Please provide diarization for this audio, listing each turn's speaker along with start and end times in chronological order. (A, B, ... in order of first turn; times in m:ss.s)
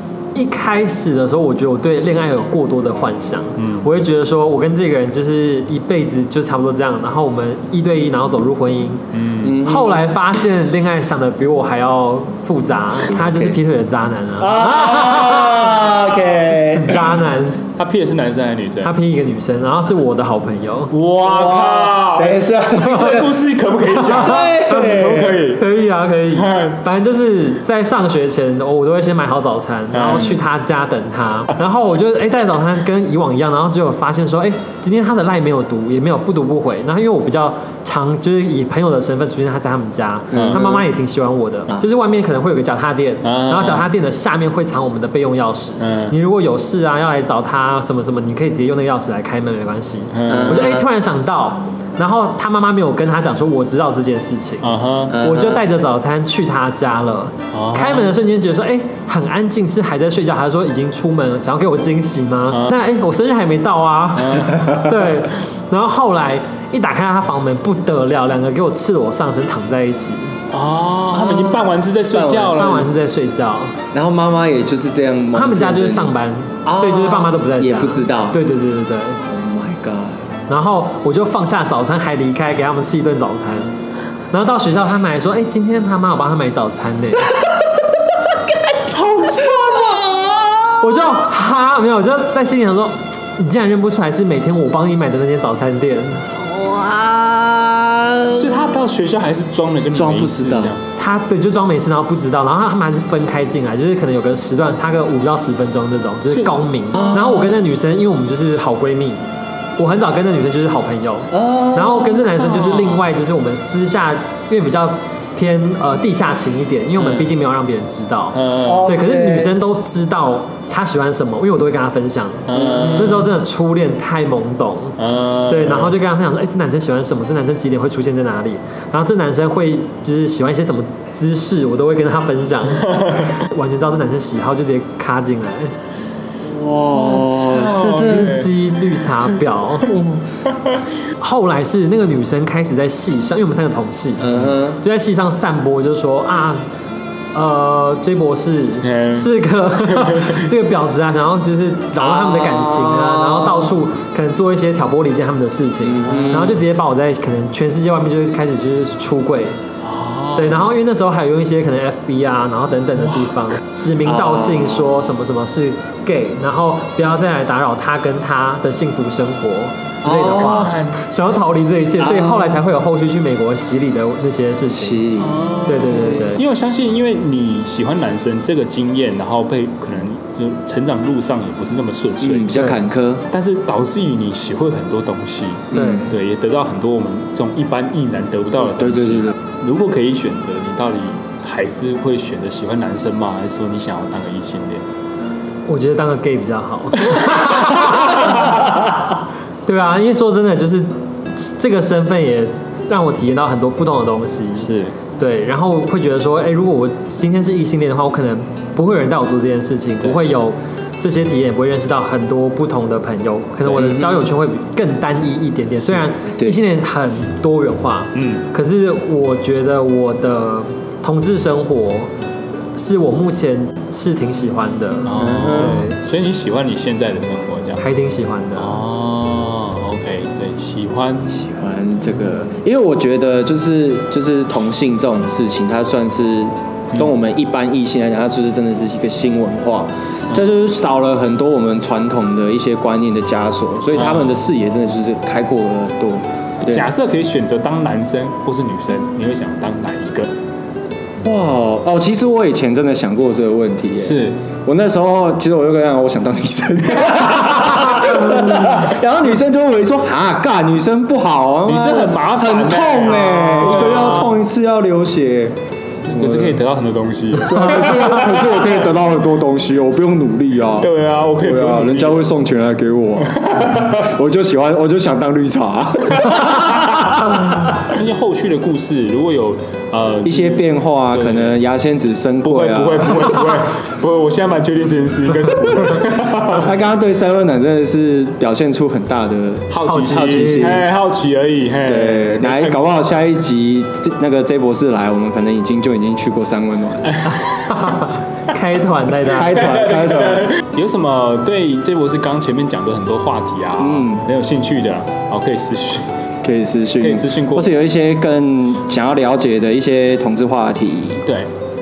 0:00.3-0:09.0 A
0:03.6-0:03.9 B
0:09.1-0:09.6 B
0:09.4-0:10.0 C
0:09.6-0:15.4 A
0:13.0-0:13.6 C
0:14.4-0:17.0 C
0:16.5-0:17.6 A
0:17.7-0:18.9 B
0:18.8-0:20.9 A
0:20.9-0:25.6 B
0:21.2-0:23.3 C
0:24.0-1:10.4 A
0:24.0-0:25.4 C
0:26.3-0:26.8 B
0:29.9-0:30.4 B
0:40.3-0:40.6 B
0:40.3-0:40.8 C
0:43.2-0:43.9 B
0:45.8-0:46.1 B
0:50.1-0:50.8 B
0:50.3-0:50.8 C
0:54.6-0:55.2 B
0:55.1-0:55.6 C
0:57.5-0:58.1 B
1:02.5-1:02.8 B
1:04.2-1:04.8 B
1:10.5-1:12.9 B
1:11.2-1:12.8 C
1:12.5-1:13.8 A
1:13.9-1:16.1 C
1:15.3-1:19.2 A
1:16.6-1:18.4 C
1:19.3-1:20.3 C
1:20.5-1:23.8 A
1:24.3-1:27.3 A
1:28.7-1:30.8 C
1:28.9-1:30.0 B
1:30.8-1:36.3 A
1:36.3-1:38.6 C
1:38.3-1:40.8 B
1:39.9-1:40.8 C
1:41.0-1:49.2 A
1:46.3-1:47.5 B
1:46.9-1:47.5 C
1:49.8-2:05.0 A
1:51.3-1:52.2 C
1:52.3-1:53.0 B
1:58.3-1:58.9 B
1:58.6-1:59.5 C
2:02.4-2:03.3 B
2:02.5-2:03.2 C
2:05.0-2:05.9 B
2:05.5-2:15.7 A
2:16.4-2:18.4 C
2:16.9-2:18.6 B
2:17.9-2:20.0 A
2:19.9-2:20.2 C
2:21.2-2:26.6 A
2:24.2-2:24.8 C
2:27.3-2:39.6 A
2:28.8-2:29.3 B
2:29.9-2:30.4 B
2:32.0-2:33.8 C
2:35.8-2:36.6 C
2:39.8-2:40.6 B
2:40.3-2:55.1 A
2:43.0-2:43.4 B
2:44.0-2:44.9 C
2:50.0-2:50.7 C
2:50.3-2:51.0 B
2:52.0-2:52.6 C
2:54.7-2:56.0 C
2:55.2-3:14.8 B
2:55.6-2:56.4 A
3:02.2-3:03.2 C
3:05.7-3:06.1 C
3:05.7-3:06.0 A
3:08.8-3:09.3 C
3:15.7-3:18.5 A
3:19.6-3:42.1 A
3:24.6-3:24.9 B
3:33.7-3:34.1 C
3:38.1-3:38.4 B
3:42.8-3:46.0 A
3:45.0-3:47.8 B
3:45.1-3:45.8 C
3:47.8-3:48.8 A
3:48.6-3:51.4 B
3:51.3-4:06.9 C
4:03.9-4:04.4 B
4:06.6-4:10.3 B
4:11.2-4:25.6 C
4:14.0-4:14.4 B
4:21.7-4:24.4 B
4:26.0-4:28.8 B
4:26.1-4:26.6 C
4:27.5-4:30.9 C
4:30.8-4:32.3 B
4:31.4-4:37.6 C
4:33.2-4:34.1 B
4:36.2-4:41.6 B
4:40.2-4:43.4 C
4:42.4-4:46.7 B
4:46.4-4:50.8 C
4:49.7-4:52.9 B
4:49.8-4:50.8 A
4:51.8-4:57.2 C
4:57.1-4:57.7 B
4:57.7-4:59.7 A
4:59.3-5:00.5 C
4:59.5-5:06.2 B
5:03.8-5:04.2 C
5:06.4-5:11.2 C
5:07.0-5:07.8 B